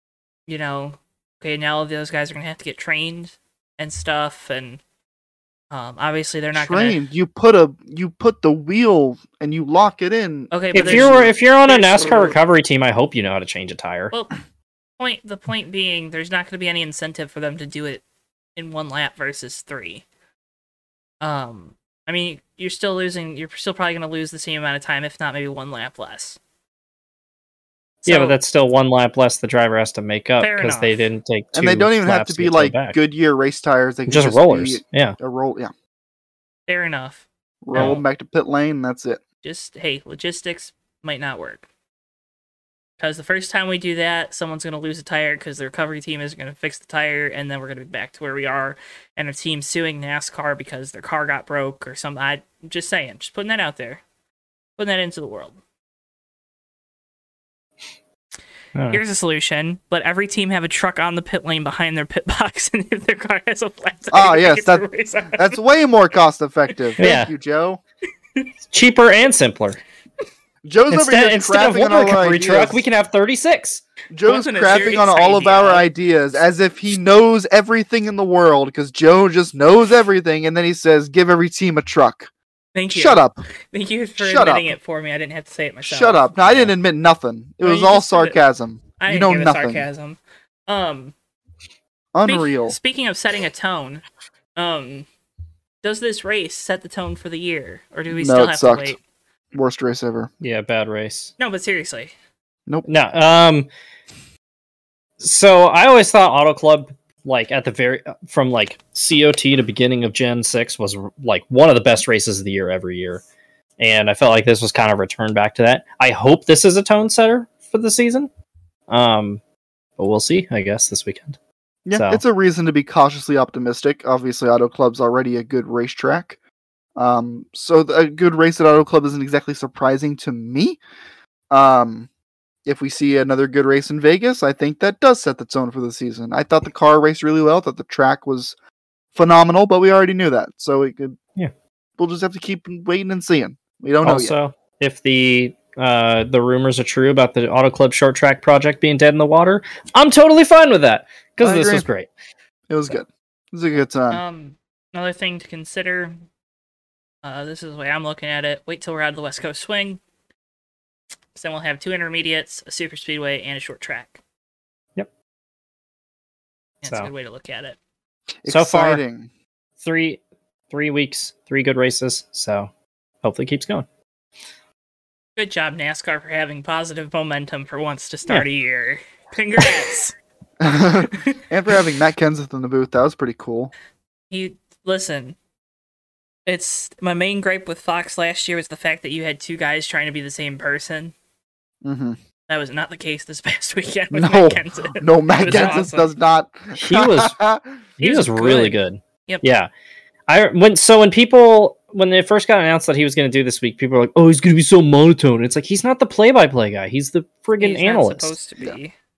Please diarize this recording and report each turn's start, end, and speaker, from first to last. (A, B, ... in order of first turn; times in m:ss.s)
0:00.5-0:04.8 A
0:05.7-0:07.0 A
0:06.5-0:11.3 B
0:10.5-0:12.4 A
0:10.7-0:14.1 C
0:15.0-0:18.0 A
0:18.6-0:20.0 A
0:21.2-0:26.4 A
0:28.0-0:28.4 A
0:28.0-0:33.0 C
0:30.4-0:31.1 A
0:31.5-0:35.7 B
0:34.1-0:35.2 C
0:36.7-0:37.2 A
0:37.6-0:39.2 B
0:37.7-0:38.0 C
0:37.8-0:38.0 A
0:39.4-0:41.6 A
0:43.0-0:54.0 A
0:54.8-0:55.6 A
0:58.7-0:59.0 C
0:58.9-1:05.6 A
1:04.1-1:07.8 B
1:07.0-1:07.3 C
1:08.7-1:09.8 C
1:10.6-1:12.8 B
1:10.9-1:13.8 C
1:14.1-1:22.3 B
1:14.2-1:15.9 A
1:22.7-1:26.7 A
1:22.9-1:23.4 B
1:24.2-1:24.7 B
1:25.8-1:29.8 B
1:27.6-1:28.4 A
1:29.0-1:31.1 A
1:32.1-1:32.8 B
1:32.2-1:34.0 A
1:34.6-1:35.1 A
1:35.8-1:39.0 A
1:38.1-1:39.0 B
1:39.5-1:40.3 B
1:40.4-1:41.3 C
1:41.4-1:42.1 A
1:42.8-1:43.7 C
1:45.2-1:53.2 C
1:53.8-1:58.3 C
1:58.9-1:59.4 C
2:00.0-2:01.4 C
2:01.8-2:06.4 B
2:01.9-2:02.2 C
2:07.0-2:10.8 B
2:11.5-2:12.1 B
2:12.6-2:18.5 B
2:19.1-2:21.2 B
2:22.0-2:24.3 B
2:24.0-2:32.1 C
2:31.4-2:31.8 B
2:32.7-2:34.2 B
2:34.1-2:36.2 A
2:37.2-2:40.0 A
2:41.3-2:44.2 A
2:46.8-2:47.8 A
2:48.4-2:49.3 B
2:48.5-2:49.0 C
2:49.8-2:52.7 C
2:53.2-2:53.9 C
2:55.4-3:00.2 A
3:00.6-3:03.7 B
3:01.1-3:01.4 A
3:04.3-3:05.4 A
3:06.4-3:11.1 A
3:11.8-3:12.2 B
3:12.5-3:16.1 A
3:14.1-3:17.7 B
3:15.4-3:15.8 C
3:16.8-3:17.4 C
3:18.0-3:19.4 A
3:18.0-3:19.7 C
3:20.3-3:28.3 C
3:27.6-3:28.9 A